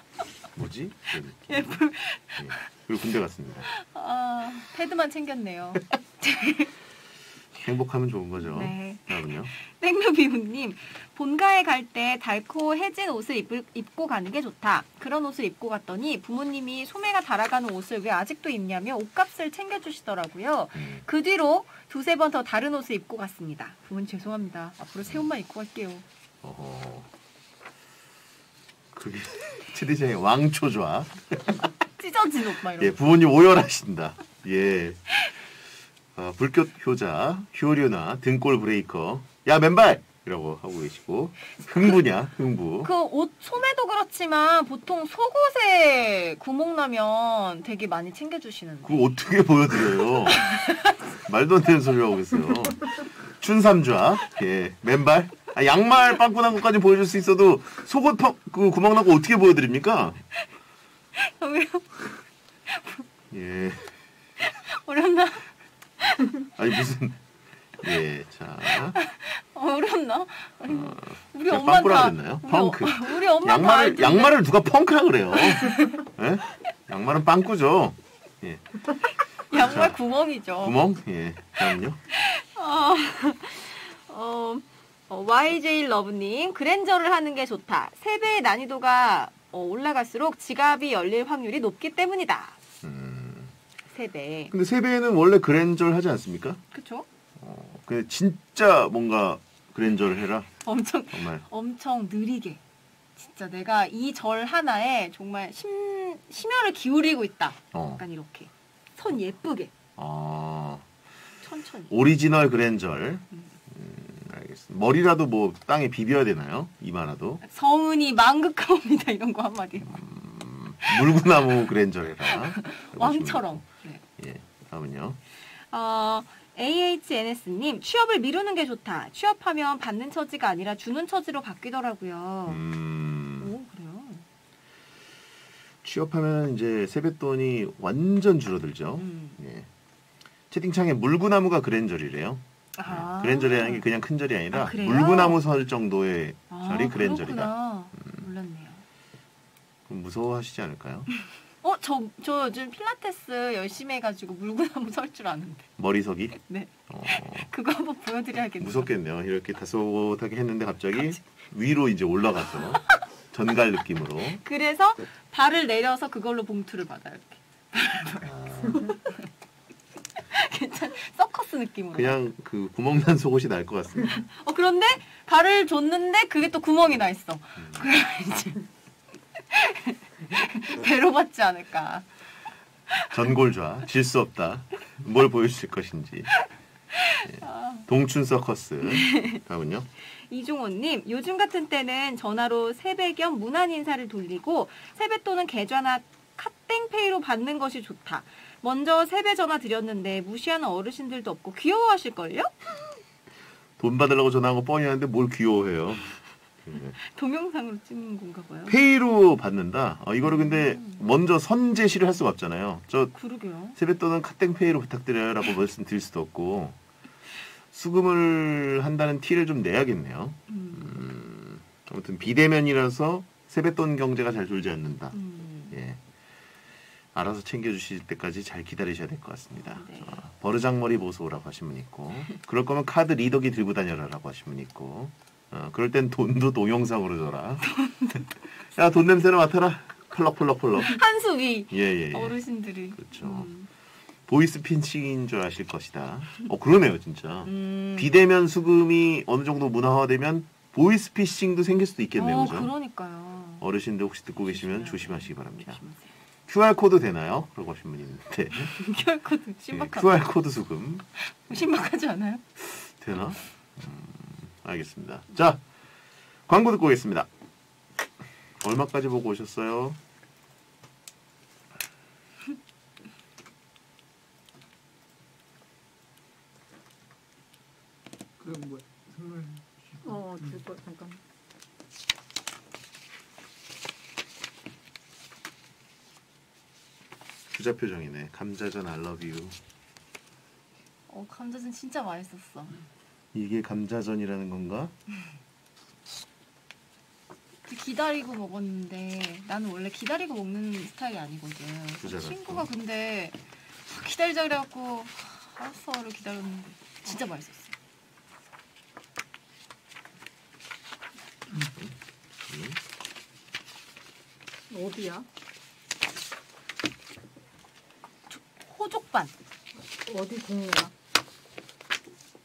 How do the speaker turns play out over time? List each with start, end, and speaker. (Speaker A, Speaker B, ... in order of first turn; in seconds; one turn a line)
Speaker A: 0.6-1.8
Speaker B: 1.5-2.6
Speaker A: 2.4-3.7
Speaker B: 3.7-6.7
Speaker A: 7.5-9.5
Speaker B: 8.4-26.0
Speaker A: 20.8-21.0
Speaker A: 26.4-27.1
Speaker A: 28.9-31.6
Speaker B: 32.0-33.0
Speaker A: 32.8-35.0
Speaker A: 36.1-42.9
Speaker B: 42.8-49.1
Speaker A: 48.8-50.5
Speaker B: 50.3-50.9
Speaker A: 51.2-60.2
Speaker B: 61.1-63.0
Speaker A: 63.3-63.9
Speaker B: 64.4-66.5
Speaker A: 66.5-67.2
Speaker A: 67.8-69.0
Speaker B: 69.0-74.4
Speaker A: 70.7-78.9
Speaker B: 75.3-76.0
Speaker B: 79.4-80.8
Speaker A: 79.5-80.0
Speaker A: 80.6-82.0
Speaker B: 82.1-92.6
Speaker A: 92.8-93.5
Speaker B: 93.9-94.5
Speaker A: 94.5-96.6
Speaker B: 96.7-97.1
Speaker A: 97.4-100.5
Speaker B: 100.6-102.6
Speaker A: 101.1-101.4
Speaker B: 103.2-109.7
Speaker A: 107.7-108.0
Speaker A: 110.0-110.9
Speaker B: 111.4-111.9
Speaker A: 111.9-117.4
Speaker B: 117.4-120.0
Speaker A: 119.8-123.6
Speaker B: 120.9-121.5
Speaker B: 122.3-124.0
Speaker A: 124.2-125.2
Speaker B: 125.4-132.6
Speaker A: 132.5-133.5
Speaker B: 133.4-134.3
Speaker A: 135.8-139.7
Speaker B: 139.0-139.4
Speaker A: 140.5-148.2
Speaker B: 142.8-143.8
Speaker B: 144.5-145.4
Speaker B: 146.5-148.8
Speaker A: 149.9-151.1
Speaker B: 151.6-155.7
Speaker A: 155.8-156.4
Speaker B: 156.4-158.9
Speaker A: 156.9-157.5
Speaker A: 158.6-164.4
Speaker B: 164.4-169.2
Speaker A: 168.2-169.0
Speaker B: 170.2-172.2
Speaker A: 171.9-174.2
Speaker B: 174.1-178.6
Speaker A: 177.6-177.9
Speaker B: 179.4-182.1
Speaker B: 182.9-183.3
Speaker A: 183.1-186.3
Speaker B: 186.9-187.9
Speaker A: 187.2-189.9
Speaker B: 188.8-189.4
Speaker B: 190.1-202.6
Speaker A: 203.8-206.1
Speaker A: 206.7-207.0
Speaker B: 207.0-208.8
Speaker A: 208.7-213.1
Speaker B: 210.2-211.0
Speaker B: 213.1-213.8
Speaker A: 213.8-216.8
Speaker A: 217.7-225.2
Speaker B: 220.5-221.1
Speaker B: 225.1-225.8
Speaker A: 225.7-226.0
Speaker A: 227.1-237.7
Speaker B: 229.8-230.2
Speaker B: 237.7-238.2
Speaker A: 238.8-241.0
Speaker B: 240.8-243.7
Speaker A: 241.7-242.4
Speaker A: 242.9-243.5
Speaker A: 244.3-252.7
Speaker B: 247.4-248.1
Speaker B: 252.2-253.7
Speaker A: 253.6-255.8
Speaker B: 254.4-256.1
Speaker A: 256.5-258.8
Speaker B: 258.5-260.2
Speaker A: 259.7-261.1
Speaker B: 261.2-262.4
Speaker A: 262.6-265.6
Speaker A: 266.5-267.3
Speaker A: 268.6-270.0
Speaker C: 278.4-280.6
Speaker D: 280.0-281.2
Speaker A: 287.5-289.6
Speaker B: 291.1-292.8
Speaker A: 293.3-294.9
Speaker B: 297.6-307.7
Speaker A: 302.0-302.7
Speaker A: 312.5-312.8
Speaker D: 314.7-315.3
Speaker B: 318.3-319.3
Speaker D: 319.9-320.9